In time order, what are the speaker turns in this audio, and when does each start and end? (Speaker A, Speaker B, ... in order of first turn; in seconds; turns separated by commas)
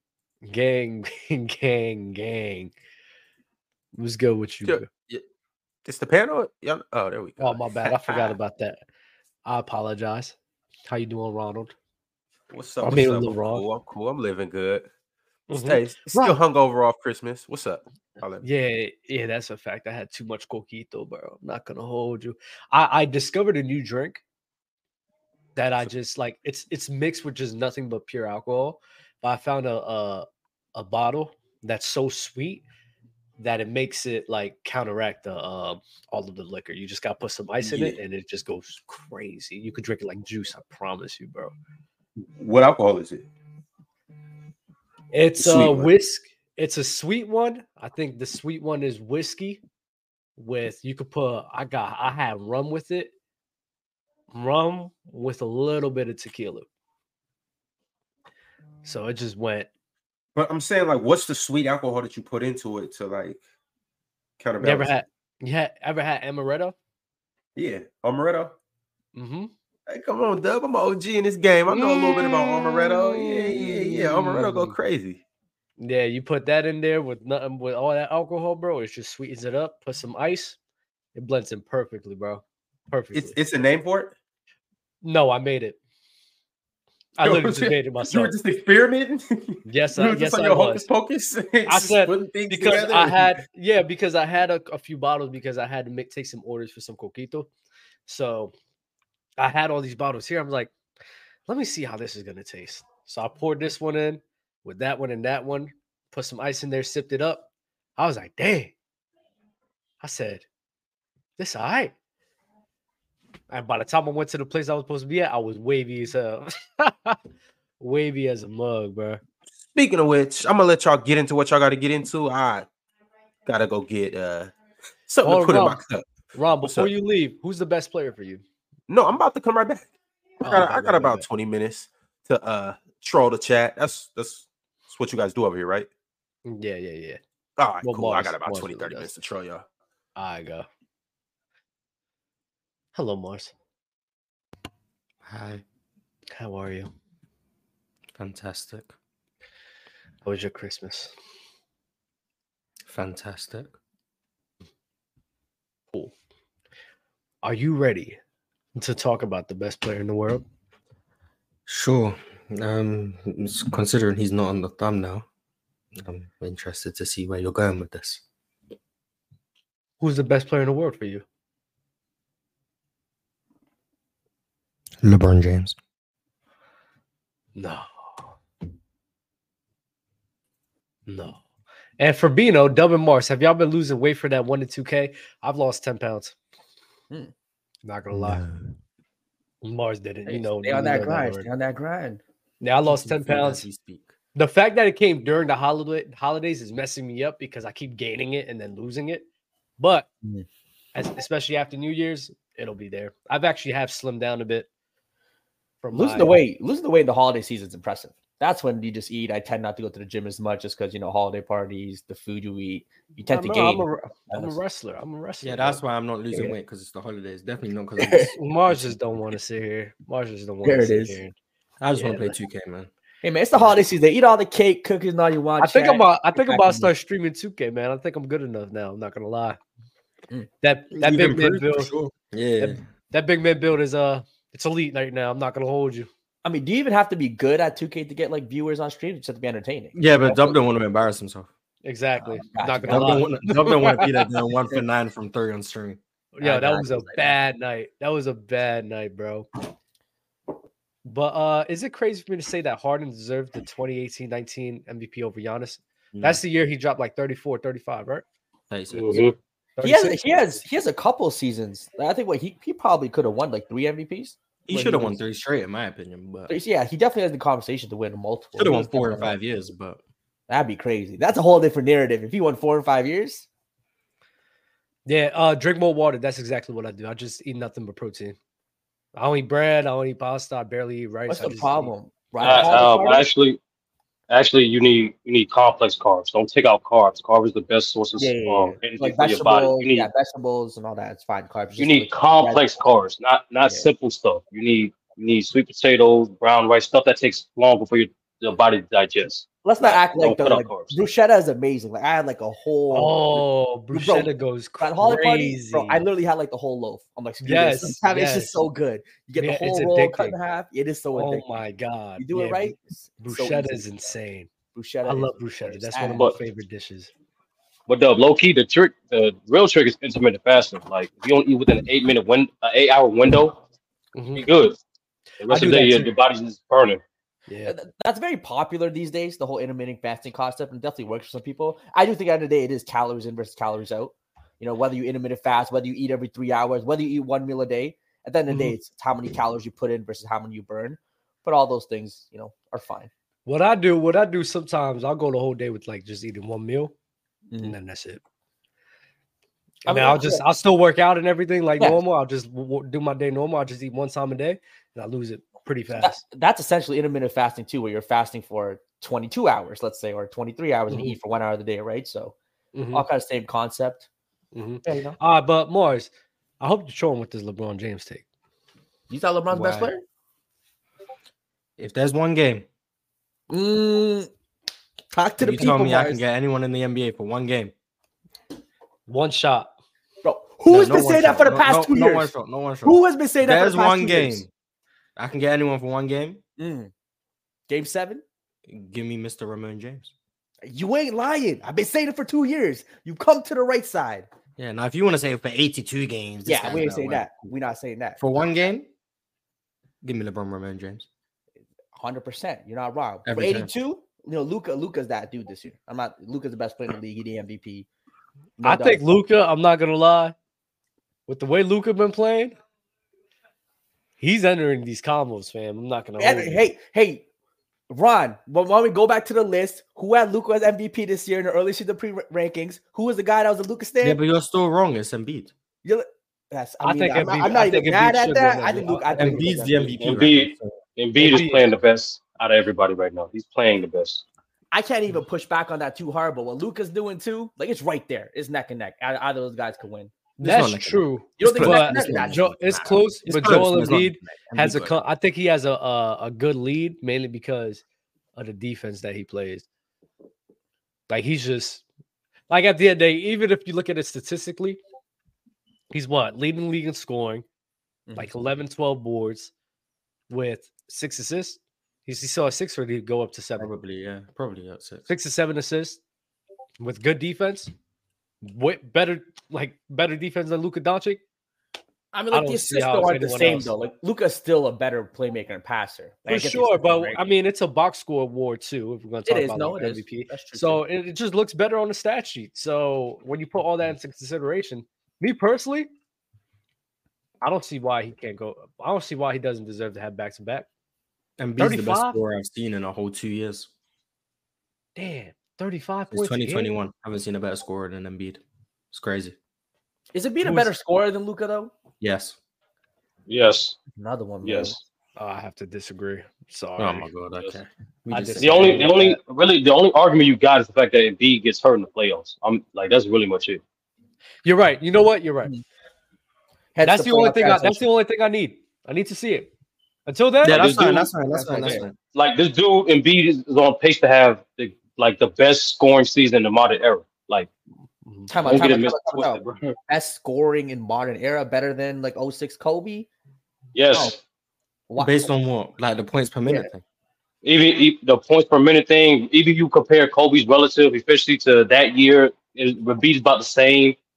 Speaker A: 0.4-2.7, Speaker A: 3.9-4.8, Speaker B: 4.6-5.2, Speaker B: 5.8-8.3, Speaker A: 7.4-8.8, Speaker A: 9.4-10.3, Speaker A: 10.9-11.7, Speaker B: 12.5-14.9, Speaker A: 12.8-13.6, Speaker A: 15.5-16.4, Speaker B: 15.5-18.4, Speaker A: 18.4-24.2, Speaker A: 25.6-32.6, Speaker A: 33.4-41.5, Speaker B: 37.6-38.0, Speaker B: 42.4-43.2, Speaker A: 45.1-49.6, Speaker B: 45.4-45.9, Speaker A: 50.4-53.1, Speaker A: 54.3-56.6, Speaker A: 58.8-59.7, Speaker B: 60.3-63.4, Speaker B: 64.4-65.0, Speaker A: 64.6-66.7, Speaker B: 67.5-68.5, Speaker A: 69.1-69.5, Speaker B: 69.9-75.2, Speaker A: 71.7-74.8, Speaker A: 75.8-80.6, Speaker A: 81.1-83.3, Speaker B: 83.1-84.1, Speaker A: 85.0-85.8, Speaker A: 87.2-88.3, Speaker B: 87.2-93.4, Speaker A: 89.6-90.9, Speaker A: 91.7-97.5, Speaker A: 98.1-98.5, Speaker A: 99.4-100.7, Speaker A: 101.5-108.7, Speaker A: 110.0-110.4, Speaker A: 111.4-111.9, Speaker A: 113.5-117.2, Speaker A: 117.8-119.2, Speaker B: 119.7-122.7, Speaker B: 123.5-124.5, Speaker B: 125.1-126.0, Speaker A: 125.2-125.8, Speaker A: 126.3-128.4, Speaker B: 126.6-126.9, Speaker B: 128.9-135.9, Speaker A: 130.4-131.2, Speaker A: 136.4-137.2, Speaker B: 137.6-139.6, Speaker A: 137.8-139.1, Speaker A: 140.2-140.7, Speaker A: 142.9-143.5, Speaker C: 145.2-145.6, Speaker A: 146.3-146.9, Speaker C: 148.1-148.9, Speaker A: 150.2-151.1, Speaker C: 152.8-153.7, Speaker A: 157.4-158.2, Speaker A: 158.7-160.4, Speaker C: 161.7-165.2, Speaker C: 165.9-168.2, Speaker A: 170.0-171.2, Speaker C: 175.0-175.8, Speaker A: 177.6-177.8, Speaker A: 181.1-181.4, Speaker A: 182.0-186.3, Speaker A: 187.8-188.4, Speaker C: 188.1-188.7, Speaker A: 189.6-191.5, Speaker D: 190.2-192.2, Speaker A: 192.6-193.7, Speaker C: 192.8-194.1, Speaker A: 194.3-199.2, Speaker A: 199.8-200.1, Speaker A: 200.9-204.7, Speaker A: 205.8-206.3, Speaker D: 205.9-214.6, Speaker A: 213.3-215.8, Speaker C: 215.4-218.8, Speaker D: 218.0-218.3, Speaker A: 218.3-221.3, Speaker D: 220.6-221.2, Speaker C: 221.8-222.9, Speaker A: 221.9-222.3, Speaker D: 223.2-226.9, Speaker A: 225.6-229.6, Speaker A: 230.6-231.9, Speaker C: 230.9-232.8, Speaker A: 232.6-236.1, Speaker D: 236.4-240.5, Speaker C: 239.9-241.5, Speaker A: 241.8-244.2, Speaker D: 242.2-243.3, Speaker C: 242.9-246.0, Speaker A: 246.3-249.5, Speaker D: 246.4-247.4, Speaker A: 251.0-258.2, Speaker C: 256.1-256.4, Speaker C: 258.7-259.3, Speaker E: 258.9-259.3, Speaker A: 259.8-260.5, Speaker D: 259.8-265.2, Speaker C: 264.7-266.5, Speaker D: 266.5-269.3, Speaker C: 268.6-270.0, Speaker D: 270.5-273.5, Speaker A: 275.1-278.4, Speaker A: 279.1-281.9, Speaker D: 281.3-283.3, Speaker E: 282.4-283.6, Speaker E: 284.3-290.1, Speaker D: 288.2-292.6, Speaker E: 291.8-300.9, Speaker D: 293.6-293.9, Speaker D: 299.6-311.5, Speaker A: 302.9-306.0, Speaker A: 307.4-308.5, Speaker A: 309.4-310.4, Speaker A: 311.1-314.5, Speaker D: 312.2-313.8, Speaker D: 314.7-316.3, Speaker A: 315.1-317.1, Speaker E: 317.9-323.6, Speaker A: 324.1-324.5, Speaker E: 324.4-324.8, Speaker E: 325.4-327.0, Speaker A: 325.5-326.1, Speaker A: 327.5-327.7, Speaker D: 327.7-343.1, Speaker A: 338.5-338.7, Speaker A: 343.4-346.9, Speaker D: 347.5-347.8, Speaker A: 347.6-348.2, Speaker A: 349.8-356.2, Speaker D: 349.9-350.4, Speaker D: 356.0-362.3, Speaker A: 360.9-361.2, Speaker A: 362.7-363.1, Speaker D: 362.9-364.1, Speaker A: 364.5-368.2, Speaker D: 364.8-365.1, Speaker D: 369.1-370.0, Speaker C: 369.5-369.9, Speaker C: 371.8-372.6, Speaker D: 373.5-374.3, Speaker D: 375.1-376.2, Speaker C: 375.4-377.7, Speaker A: 379.1-379.7, Speaker D: 380.2-382.3, Speaker C: 380.7-384.5, Speaker D: 382.8-384.4, Speaker C: 385.1-386.4, Speaker D: 386.6-386.9, Speaker D: 387.7-388.2, Speaker C: 388.7-390.1, Speaker D: 390.6-394.3, Speaker C: 394.6-397.3, Speaker D: 396.4-398.2, Speaker C: 398.2-398.9, Speaker C: 400.0-401.1, Speaker D: 401.9-407.9, Speaker C: 403.2-403.7, Speaker D: 408.6-409.1, Speaker A: 408.6-410.3, Speaker A: 411.3-412.6, Speaker A: 414.2-416.6, Speaker D: 416.2-417.2, Speaker D: 417.9-424.2, Speaker C: 424.0-425.5, Speaker D: 425.8-430.0, Speaker A: 426.8-429.4, Speaker C: 428.6-430.7, Speaker E: 430.0-434.2, Speaker A: 431.2-431.7, Speaker D: 434.7-440.1, Speaker A: 440.4-447.8, Speaker C: 440.4-444.9, Speaker D: 441.4-442.9, Speaker A: 448.4-449.6, Speaker A: 451.1-451.8, Speaker A: 452.5-454.8, Speaker A: 455.9-457.4, Speaker A: 458.1-459.5, Speaker A: 460.3-463.7, Speaker C: 463.6-465.1, Speaker A: 465.1-466.0, Speaker A: 466.8-467.7, Speaker A: 468.4-471.2, Speaker D: 472.1-477.2, Speaker A: 472.3-473.7, Speaker A: 476.3-485.9, Speaker D: 479.2-480.8, Speaker A: 487.4-490.7, Speaker C: 491.4-493.7, Speaker A: 491.6-492.2, Speaker A: 494.9-496.7, Speaker C: 496.1-499.4, Speaker D: 500.1-501.7, Speaker C: 500.4-500.7, Speaker C: 502.0-502.4, Speaker E: 503.3-503.8, Speaker D: 504.0-504.8, Speaker E: 504.4-504.8, Speaker A: 505.2-507.1, Speaker C: 506.8-509.0, Speaker A: 508.1-509.2, Speaker E: 508.4-513.6, Speaker A: 514.4-515.5, Speaker D: 516.7-517.8, Speaker A: 516.8-519.5, Speaker A: 520.1-520.7, Speaker C: 520.4-522.0, Speaker E: 520.5-521.0, Speaker D: 520.7-521.9, Speaker E: 522.1-527.5, Speaker A: 528.0-528.3, Speaker D: 528.3-533.1, Speaker E: 528.5-529.7, Speaker E: 533.7-534.2, Speaker D: 534.9-535.3, Speaker C: 535.0-536.8, Speaker E: 537.4-544.0